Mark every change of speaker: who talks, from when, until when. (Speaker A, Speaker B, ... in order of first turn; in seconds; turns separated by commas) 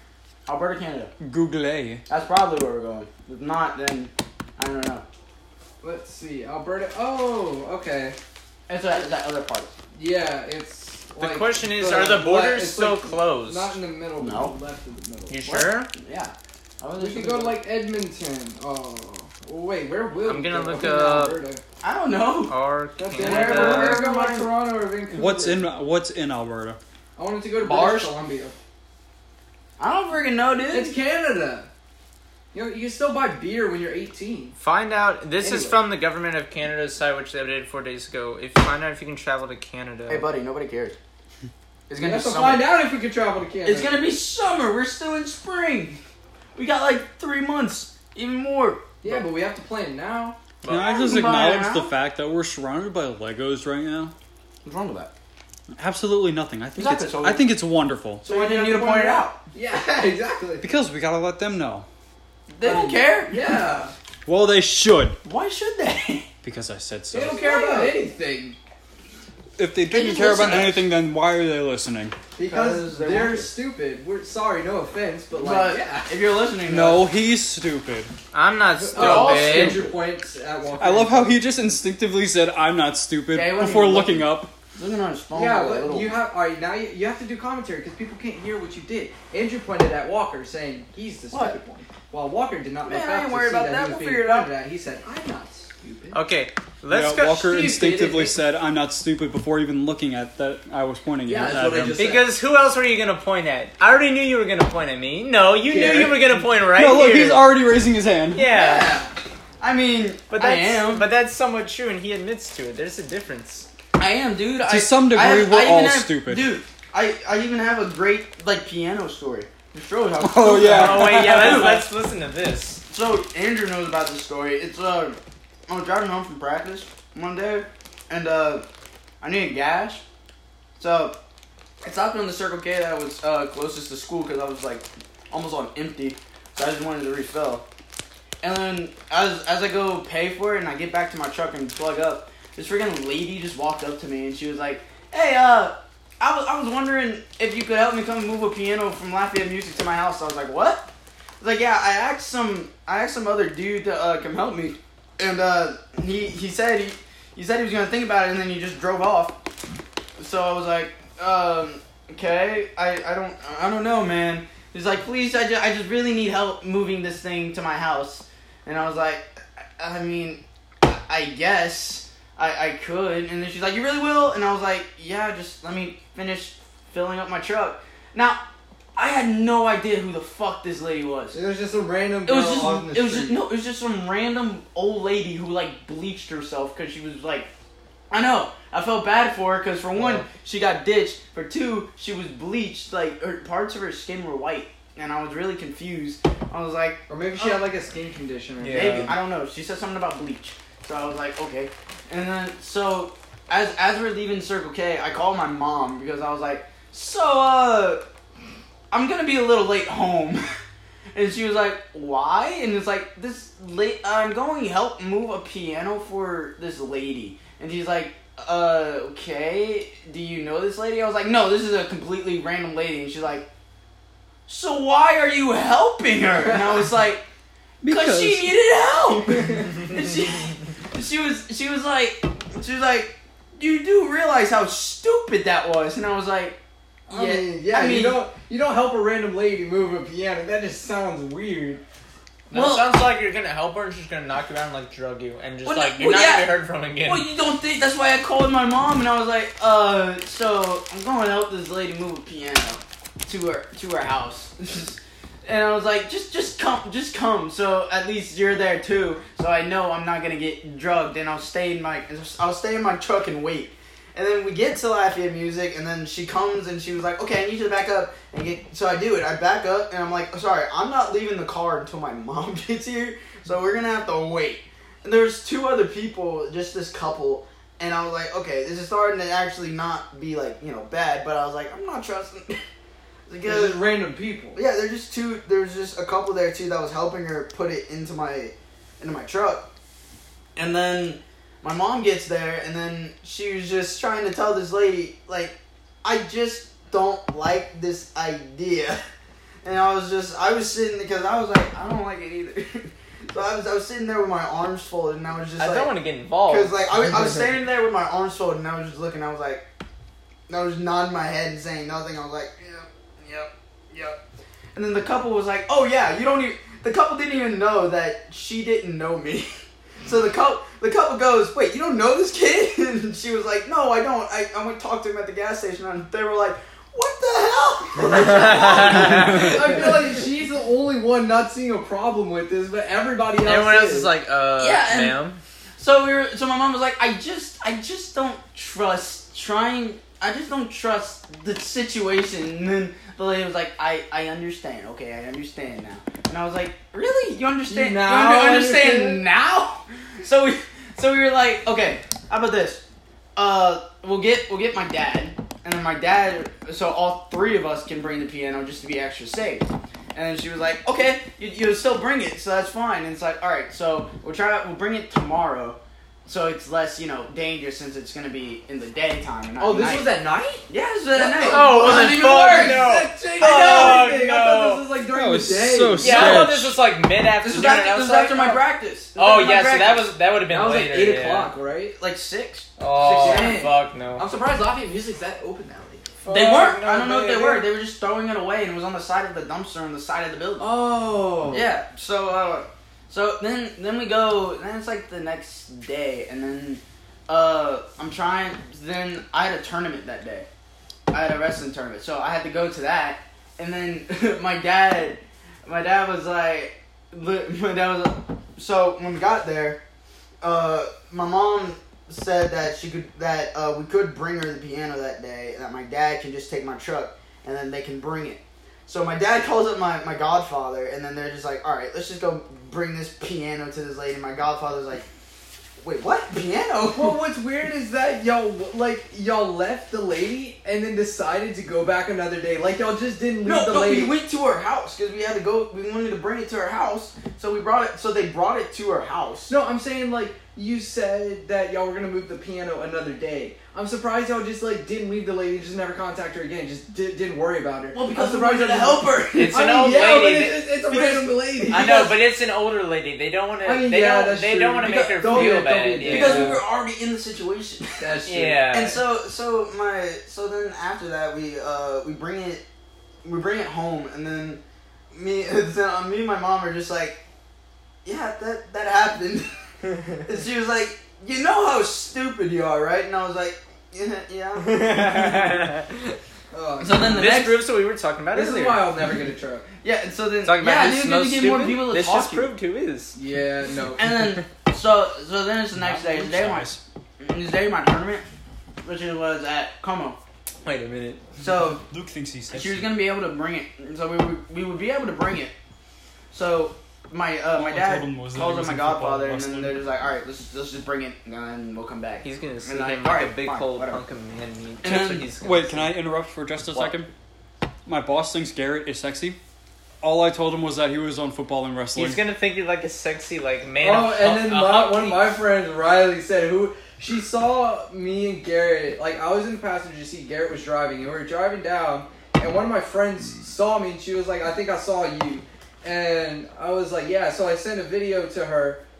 Speaker A: 0.5-1.1, Speaker B: 1.2-2.0, Speaker A: 2.1-5.0, Speaker C: 5.8-8.2, Speaker A: 8.7-9.7, Speaker C: 9.9-15.6, Speaker D: 11.2-13.7, Speaker A: 14.2-14.6, Speaker D: 15.3-15.9, Speaker A: 15.4-17.6, Speaker C: 17.0-21.6, Speaker D: 20.2-21.4, Speaker A: 21.8-22.6, Speaker D: 22.5-24.1, Speaker C: 23.0-25.7, Speaker A: 23.2-24.5, Speaker B: 25.1-26.8, Speaker C: 27.2-28.6, Speaker A: 27.6-28.1, Speaker A: 29.8-31.0, Speaker C: 30.7-31.7, Speaker C: 32.5-34.6, Speaker D: 34.6-40.2, Speaker C: 35.4-35.8, Speaker A: 40.1-41.0, Speaker A: 41.9-42.7, Speaker C: 42.0-44.0, Speaker A: 43.6-46.0, Speaker A: 46.5-49.2, Speaker C: 49.0-50.4, Speaker A: 50.7-51.9, Speaker B: 50.7-54.1, Speaker A: 54.6-55.1, Speaker B: 55.8-58.2, Speaker A: 56.8-57.5, Speaker A: 58.2-59.4, Speaker C: 58.2-60.7, Speaker B: 60.6-61.9, Speaker A: 62.5-63.4, Speaker C: 62.6-63.9, Speaker B: 64.3-65.2, Speaker A: 65.2-66.3, Speaker B: 66.4-67.4, Speaker C: 67.1-68.6, Speaker A: 67.3-68.0, Speaker B: 69.6-72.2, Speaker A: 69.9-70.9, Speaker C: 72.4-76.1, Speaker A: 72.4-73.5, Speaker A: 75.3-77.0, Speaker B: 76.7-78.1, Speaker D: 78.3-79.8, Speaker C: 78.8-81.4, Speaker A: 79.0-79.9, Speaker B: 80.8-84.5, Speaker A: 83.3-86.2, Speaker C: 85.3-96.2, Speaker A: 91.3-91.6, Speaker A: 92.9-94.5, Speaker D: 96.1-97.6, Speaker B: 96.9-102.0, Speaker C: 97.5-98.4, Speaker C: 101.3-102.3, Speaker D: 102.0-107.5, Speaker C: 105.7-106.4, Speaker B: 106.7-108.5, Speaker D: 108.3-109.0, Speaker A: 108.5-109.0, Speaker C: 108.6-109.1, Speaker A: 109.6-111.1, Speaker D: 110.3-113.7, Speaker A: 114.0-121.9, Speaker B: 114.7-116.5, Speaker B: 120.2-121.8, Speaker D: 120.6-122.8, Speaker A: 122.9-128.7, Speaker A: 129.2-130.0, Speaker A: 130.8-131.2, Speaker A: 131.8-137.6, Speaker A: 138.4-159.4, Speaker A: 160.2-178.4, Speaker A: 179.0-181.4, Speaker C: 181.3-183.4, Speaker A: 182.2-187.5, Speaker A: 188.1-197.7, Speaker C: 197.1-199.2, Speaker D: 198.6-199.2, Speaker A: 198.7-208.0, Speaker A: 208.9-210.4, Speaker A: 211.2-223.5, Speaker A: 224.5-227.2, Speaker B: 227.8-228.6, Speaker A: 227.9-236.6, Speaker C: 237.1-241.8, Speaker A: 237.1-238.2, Speaker D: 242.5-247.3, Speaker A: 242.5-243.0, Speaker A: 245.7-282.6, Speaker A: 283.3-283.9, Speaker C: 283.4-284.6, Speaker A: 284.6-289.6, Speaker A: 290.6-299.0, Speaker A: 299.6-305.9, Speaker D: 305.6-307.2, Speaker A: 306.5-309.6, Speaker A: 310.5-314.2, Speaker A: 314.8-319.5, Speaker A: 320.1-329.9, Speaker D: 328.0-329.8, Speaker C: 329.1-334.1, Speaker D: 333.4-335.4, Speaker A: 334.6-335.2, Speaker A: 335.8-352.8, Speaker C: 347.7-349.2, Speaker A: 353.4-370.1, Speaker C: 369.6-376.5, Speaker A: 370.7-372.9, Speaker D: 371.4-374.9, Speaker A: 373.4-374.1, Speaker B: 375.1-376.8, Speaker D: 376.0-378.6, Speaker A: 376.0-376.6, Speaker A: 377.4-380.1, Speaker D: 379.1-381.5, Speaker C: 380.5-381.9, Speaker A: 382.0-383.7, Speaker D: 382.8-384.3, Speaker C: 383.0-387.6, Speaker A: 386.3-390.7, Speaker C: 390.6-391.9, Speaker A: 391.5-400.5, Speaker A: 401.1-409.8, Speaker A: 410.4-425.1, Speaker A: 425.8-427.2, Speaker C: 426.9-434.1, Speaker A: 433.4-439.5, Speaker C: 439.5-452.0, Speaker A: 447.9-449.7, Speaker D: 449.3-450.7, Speaker A: 450.9-452.2, Speaker D: 451.7-456.6, Speaker C: 453.6-456.6, Speaker A: 455.3-462.6, Speaker C: 458.0-458.7, Speaker D: 458.3-459.0, Speaker A: 463.2-464.6, Speaker A: 465.1-467.2, Speaker A: 468.1-469.5, Speaker A: 470.2-475.5, Speaker D: 474.6-476.2, Speaker C: 476.5-477.4, Speaker A: 476.8-477.6, Speaker D: 477.1-478.9, Speaker C: 478.3-479.7, Speaker A: 479.8-482.5, Speaker D: 480.4-483.2, Speaker C: 483.1-484.1, Speaker A: 484.0-488.3, Speaker B: 485.8-486.8, Speaker A: 488.8-490.2, Speaker D: 490.6-491.2, Speaker A: 491.4-491.8, Speaker B: 491.4-492.9, Speaker A: 492.5-495.5, Speaker A: 496.3-504.0, Speaker B: 497.5-499.8, Speaker D: 502.2-505.9, Speaker A: 504.8-505.2, Speaker B: 505.4-507.1, Speaker B: 507.9-509.4, Speaker B: 510.0-512.2, Speaker D: 511.9-515.3, Speaker C: 513.8-528.8